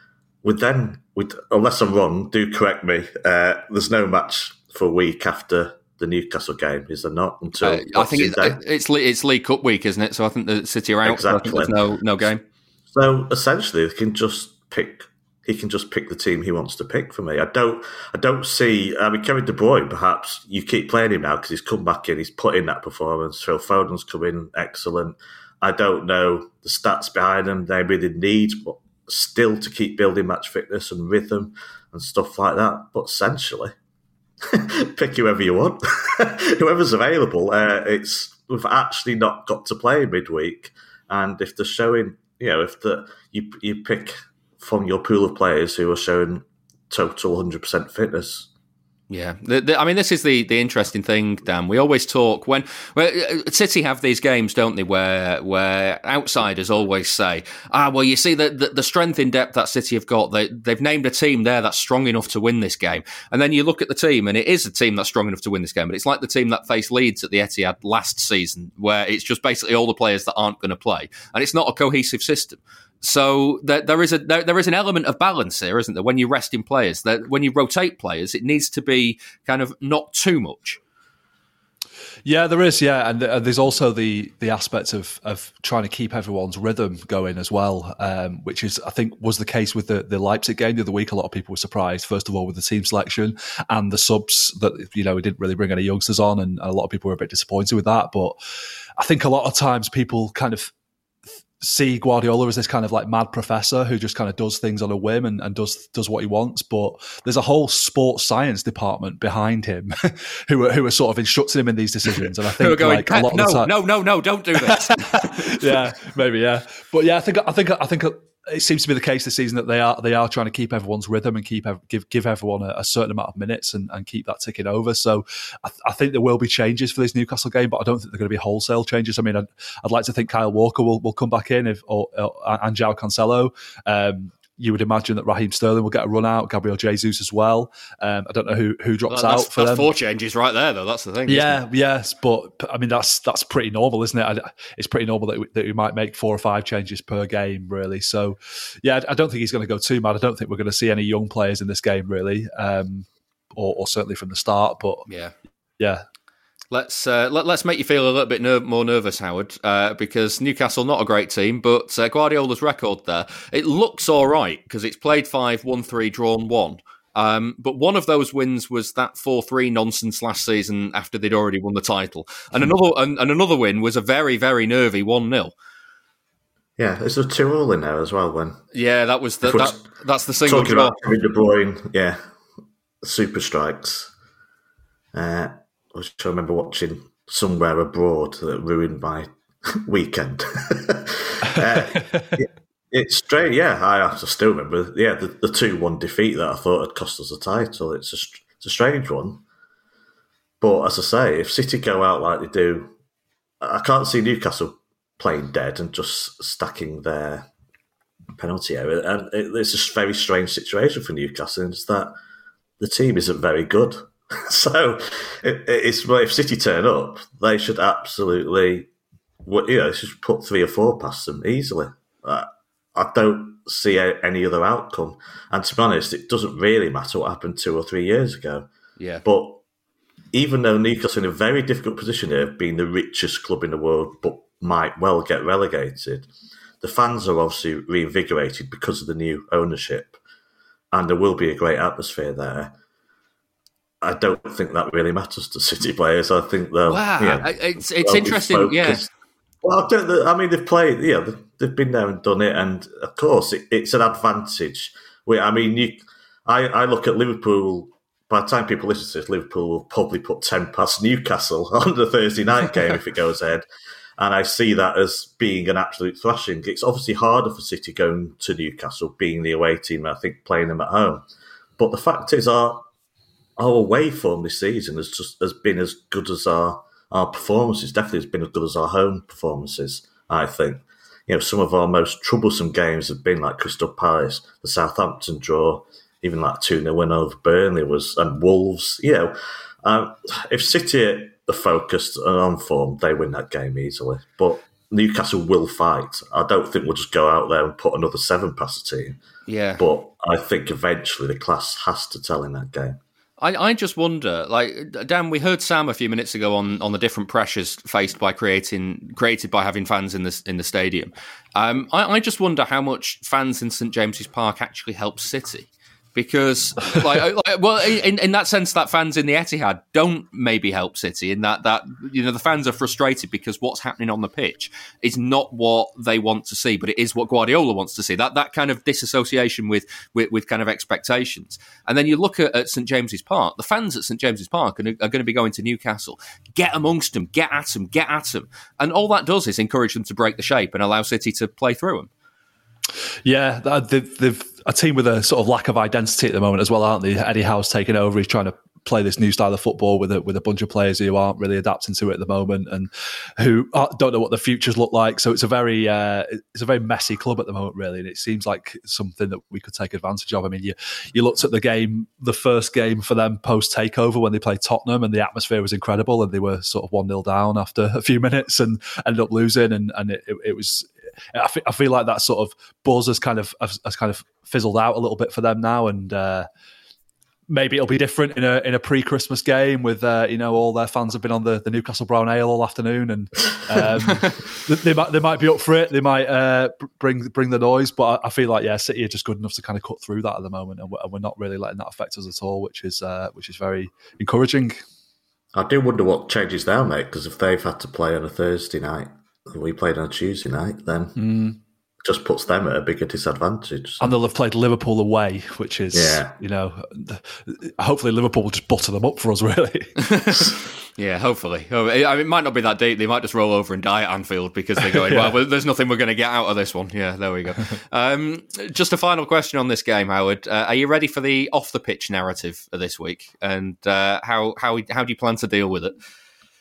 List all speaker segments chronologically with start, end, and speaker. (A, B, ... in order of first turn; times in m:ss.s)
0:00.4-0:08.6 A
0:07.6-0:12.4 B
0:11.0-0:12.3 A
0:12.9-0:33.7 A
0:34.4-0:48.5 A
0:49.1-1:20.8 B
1:22.2-1:38.4 C
1:39.0-1:40.7 C
1:41.6-1:53.7 C
1:52.6-1:55.6 B
1:54.7-2:19.9 C
2:19.1-2:21.6 B
2:21.3-2:35.0 C
2:35.1-2:35.3 B
2:35.8-2:36.0 C
2:36.7-2:55.5 B
2:56.8-2:58.6 A
2:58.7-3:01.0 B
2:59.4-2:59.8 A
3:00.4-3:02.2 A
3:03.0-3:04.1 A
3:05.1-3:19.4 A
3:11.6-3:12.3 C
3:20.6-3:22.9 A
3:23.6-3:27.5 A
3:28.4-3:32.1 A
3:32.8-3:38.9 A
3:39.4-3:48.7 A
3:49.0-3:49.2 B
3:49.2-3:49.6 A
3:50.3-3:56.3 A
3:56.8-4:00.2 A
4:00.9-4:02.7 A
4:04.0-4:09.1 A
4:06.9-4:09.0 B
4:09.6-4:23.6 A
4:24.2-4:31.2 A
4:31.8-4:32.8 A
4:33.6-4:59.2 A
4:59.5-4:59.8 B
4:59.8-5:03.0 A
5:03.4-5:42.1 B
5:43.2-6:16.5 C
6:17.5-6:34.8 C
6:35.5-6:41.2 A
6:41.2-6:41.6 C
6:42.0-6:44.1 A
6:44.0-6:49.9 C
6:45.9-6:46.3 A
6:50.0-7:05.9 B
6:54.8-6:55.3 C